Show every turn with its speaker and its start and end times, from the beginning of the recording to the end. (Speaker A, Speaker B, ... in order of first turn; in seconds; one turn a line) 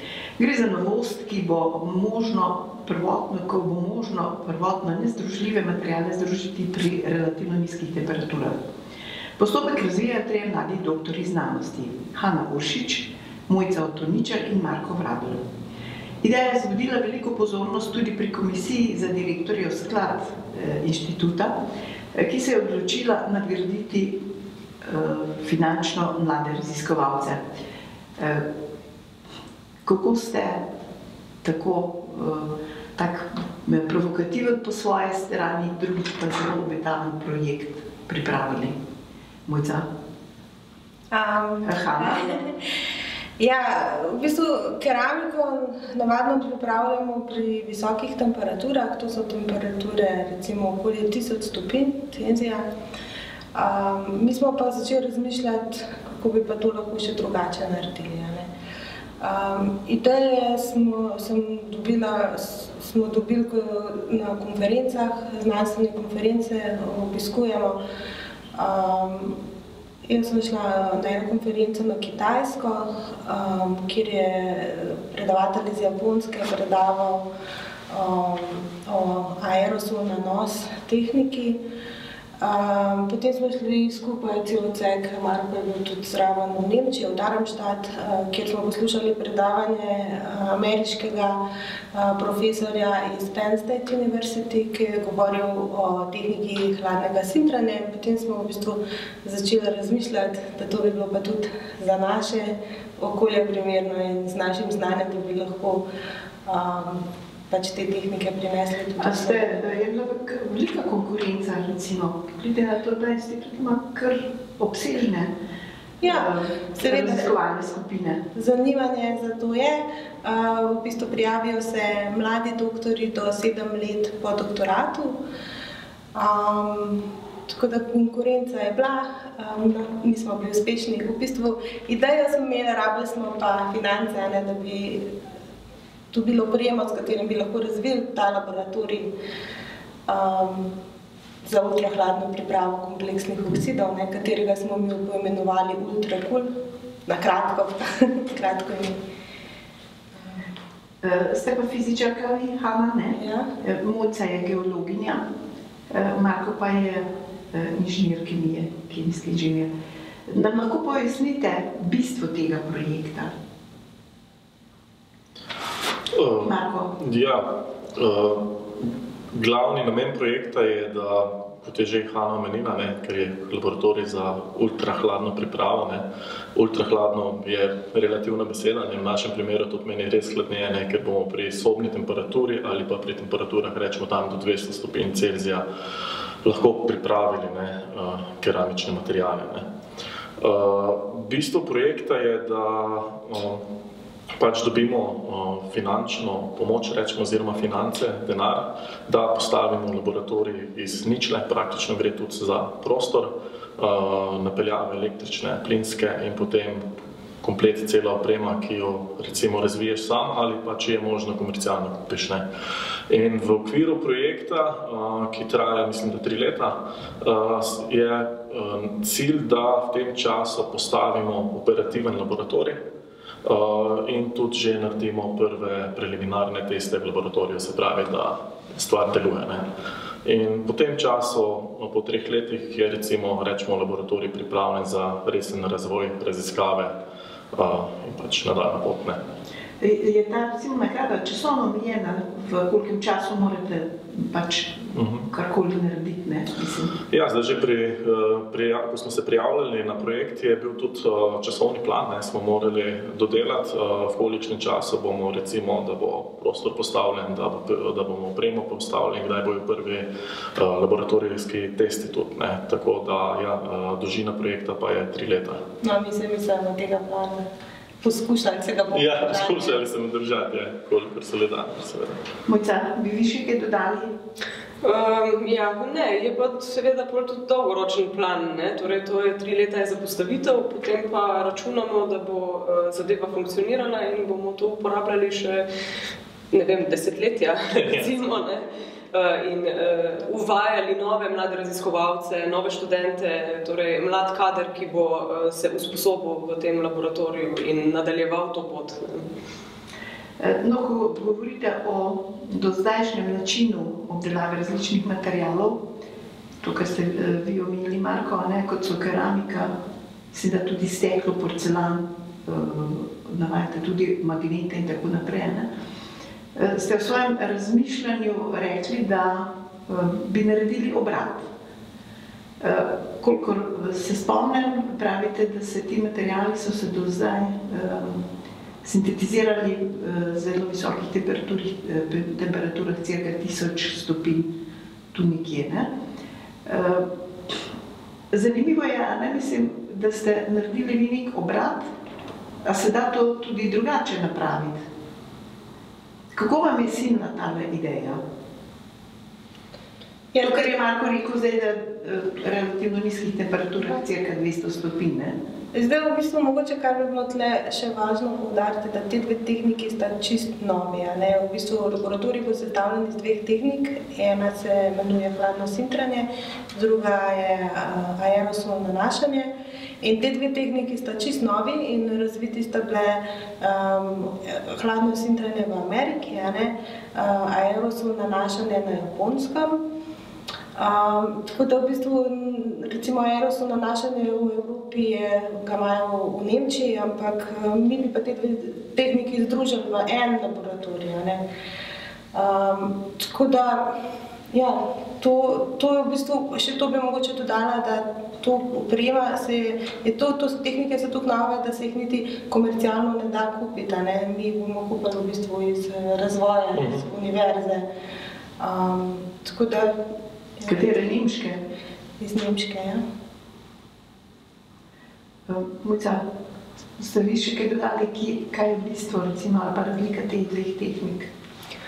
Speaker A: 0.4-8.6
Speaker A: 9.4-15.4
Speaker A: 16.2-21.6
Speaker A: 22.1-24.2
Speaker A: 24.9-27.6
Speaker A: 28.2-28.5
Speaker A: 29.9-30.6
Speaker A: 31.4-38.8
Speaker A: 39.5-39.9
Speaker B: 41.1-42.6
Speaker A: 41.6-42.4
Speaker B: 43.4-52.7
Speaker B: 53.5-58.5
Speaker B: 59.2-67.8
Speaker B: 68.5-69.4
Speaker B: 70.1-77.3
Speaker B: 77.9-81.6
Speaker B: 82.4-91.4
Speaker B: 91.9-105.8
Speaker B: 106.5-109.6
Speaker A: 109.0-115.3
Speaker B: 116.0-117.3
Speaker A: 116.0-118.2
Speaker B: 118.3-125.2
Speaker B: 126.2-135.1
Speaker B: 136.1-139.1
Speaker B: 140.1-140.7
Speaker B: 141.4-146.5
Speaker B: 147.1-149.0
Speaker B: 150.2-150.4
Speaker A: 151.0-155.3
Speaker B: 153.2-153.5
Speaker A: 155.9-159.7
Speaker A: 160.3-163.3
Speaker C: 166.1-185.7
Speaker A: 166.4-166.9
Speaker C: 186.4-189.7
Speaker C: 190.4-193.6
Speaker C: 194.4-206.8
Speaker C: 207.4-212.4
Speaker C: 213.1-222.8
Speaker C: 223.4-229.7
Speaker C: 230.2-236.9
Speaker C: 237.5-239.2
Speaker A: 239.8-247.0
Speaker C: 244.9-245.3
Speaker C: 247.1-265.6
Speaker B: 265.8-267.4
Speaker B: 268.0-269.8
Speaker C: 268.9-272.2
Speaker A: 272.5-274.1
Speaker D: 274.8-285.7
Speaker D: 286.5-299.2
Speaker C: 287.7-288.1
Speaker A: 300.4-305.8
Speaker A: 306.6-309.8
Speaker A: 310.3-315.7
Speaker A: 316.6-321.5
Speaker A: 322.6-328.3
Speaker A: 328.8-334.5
Speaker A: 335.1-335.9
Speaker A: 336.7-337.1
Speaker A: 338.3-341.9
Speaker A: 342.6-344.8
Speaker A: 346.3-348.2
Speaker B: 350.3-350.8
Speaker A: 350.4-355.4
Speaker B: 355.7-369.5
Speaker B: 370.0-379.8
Speaker B: 380.8-391.4
Speaker B: 392.3-393.9
Speaker B: 394.5-407.9
Speaker C: 406.8-407.1
Speaker B: 408.6-410.0
Speaker B: 410.6-411.0
Speaker A: 410.7-411.6
Speaker B: 412.2-413.0
Speaker A: 415.5-416.2
Speaker A: 417.0-421.3